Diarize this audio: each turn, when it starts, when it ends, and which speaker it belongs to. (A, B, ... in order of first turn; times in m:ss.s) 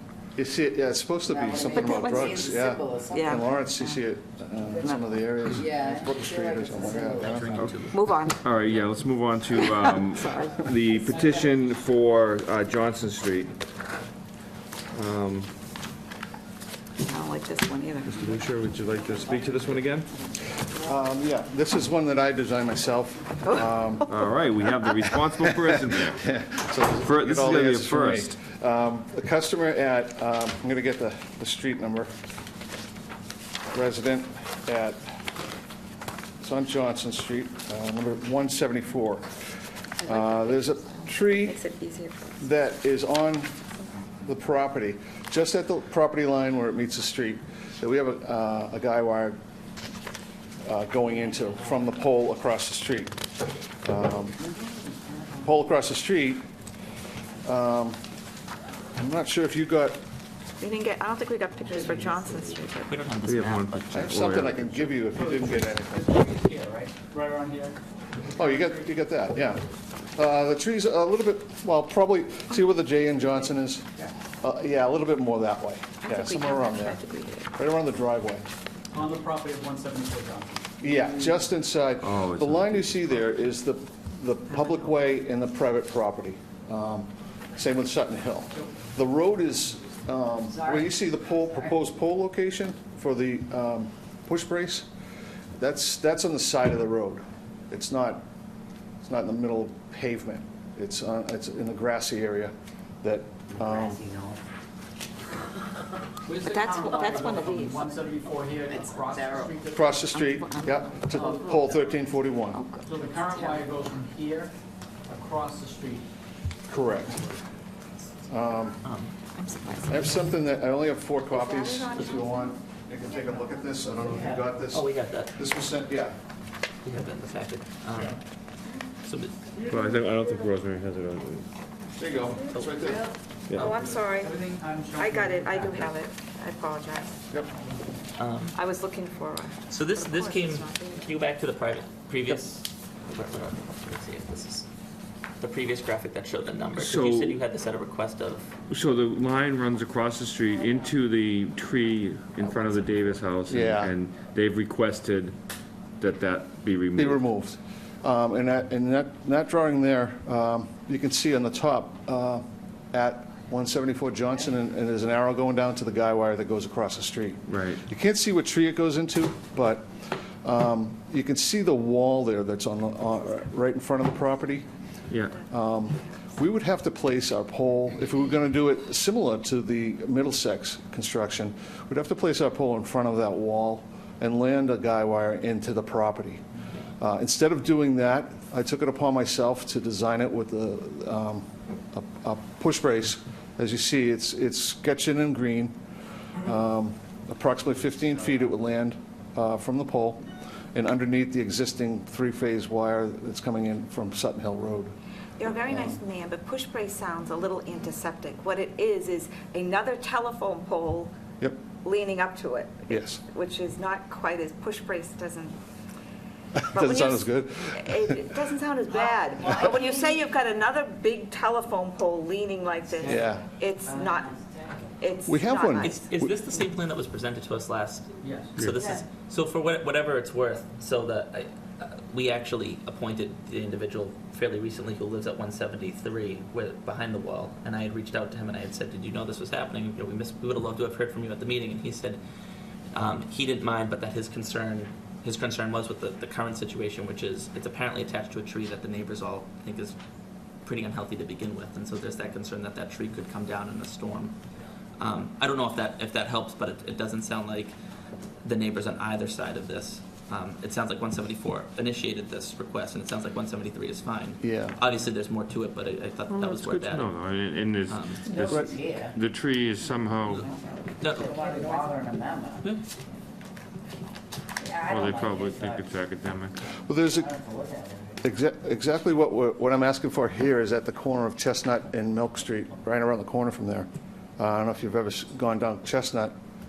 0:00.4-0:07.7 A
0:01.3-0:03.5 B
0:01.7-0:02.5 C
0:03.1-0:04.0 C
0:04.8-0:05.2 C
0:05.5-0:07.5 B
0:07.1-0:08.9 D
0:07.9-0:08.4 C
0:08.4-0:13.5 E
0:09.7-0:10.6 C
0:14.9-0:15.5 E
0:17.0-0:18.4 C
0:18.1-0:20.1 E
0:20.7-0:24.1 A
0:24.1-0:26.2 E
0:25.4-0:32.1 A
0:26.9-0:28.4 E
0:33.7-0:35.1 A
0:36.4-0:39.3 A
0:40.0-0:42.4 C
0:40.0-0:41.6 A
0:42.4-0:43.6 A
0:44.2-0:49.4 A
0:50.6-0:53.2 A
0:53.8-0:54.4 A
0:54.6-0:55.2 B
0:55.4-0:56.4 A
0:57.4-0:58.0 A
0:59.0-1:00.0 A
1:00.6-1:03.0 C
1:02.9-1:03.9 D
1:03.2-1:05.0 E
1:03.9-1:06.1 A
1:05.1-1:08.8 F
1:08.3-1:09.6 A
1:10.2-1:17.0 A
1:16.0-1:17.5 C
1:17.6-1:18.4 A
1:18.9-1:20.6 F
1:20.8-1:34.9 A
1:22.0-1:23.0 E
1:30.7-1:31.0 B
1:35.6-1:38.2 A
1:39.0-1:44.0 A
1:43.6-1:44.4 B
1:46.2-1:49.9 F
1:46.4-1:48.0 C
1:48.7-1:49.5 B
1:49.7-1:52.6 A
1:50.1-1:51.0 C
1:51.1-1:51.6 F
1:52.5-1:53.8 C
1:52.9-1:54.5 F
1:55.1-1:56.0 F
1:56.7-1:57.3 A
1:58.3-1:58.8 A
1:58.8-1:59.1 D
1:59.4-2:00.3 C
1:59.9-2:06.2 A
2:01.3-2:02.6 C
2:03.1-2:03.6 C
2:04.7-2:05.3 D
2:06.8-2:08.2 D
2:09.0-2:09.4 D
2:09.7-2:11.5 E
2:12.0-2:13.1 A
2:12.5-2:12.9 D
2:13.5-2:13.8 E
2:13.5-2:13.9 D
2:13.6-2:14.4 C
2:14.1-2:15.9 F
2:14.9-2:17.2 C
2:18.2-2:18.6 D
2:18.5-2:21.1 C
2:19.7-2:24.7 D
2:25.4-2:28.5 D
2:26.8-2:27.4 E
2:28.7-2:35.4 E
2:32.4-2:32.9 D
2:33.5-2:33.9 A
2:36.0-2:37.2 E
2:37.0-2:49.9 A
2:47.5-2:47.8 E
2:50.4-2:54.7 A
2:55.1-2:55.4 E
2:55.5-3:06.4 A
3:07.0-3:15.8 A
3:16.4-3:20.2 A
3:20.8-3:24.9 A
3:25.4-3:31.1 C
3:25.7-3:26.0 A
3:31.8-3:35.6 C
3:32.9-3:33.2 A
3:36.6-3:38.3 A
3:36.7-3:44.3 C
3:38.9-3:40.2 B
3:43.0-3:43.5 A
3:43.8-3:44.9 B
3:45.0-3:46.1 C
3:45.3-3:46.0 A
3:45.8-4:02.2 D
3:48.2-3:48.6 F
3:48.8-3:49.0 C
4:02.9-4:10.0 D
4:10.6-4:14.4 D
4:15.0-4:17.7 D
4:18.4-4:27.1 D
4:24.4-4:24.8 A
4:26.3-4:30.5 E
4:27.9-4:28.4 D
4:28.2-4:29.2 B
4:31.0-4:31.3 D
4:31.1-4:32.6 B
4:31.2-4:32.1 C
4:34.6-4:35.9 B
4:34.8-4:36.6 E
4:36.9-4:37.3 A
4:37.1-4:38.2 B
4:38.2-4:46.3 A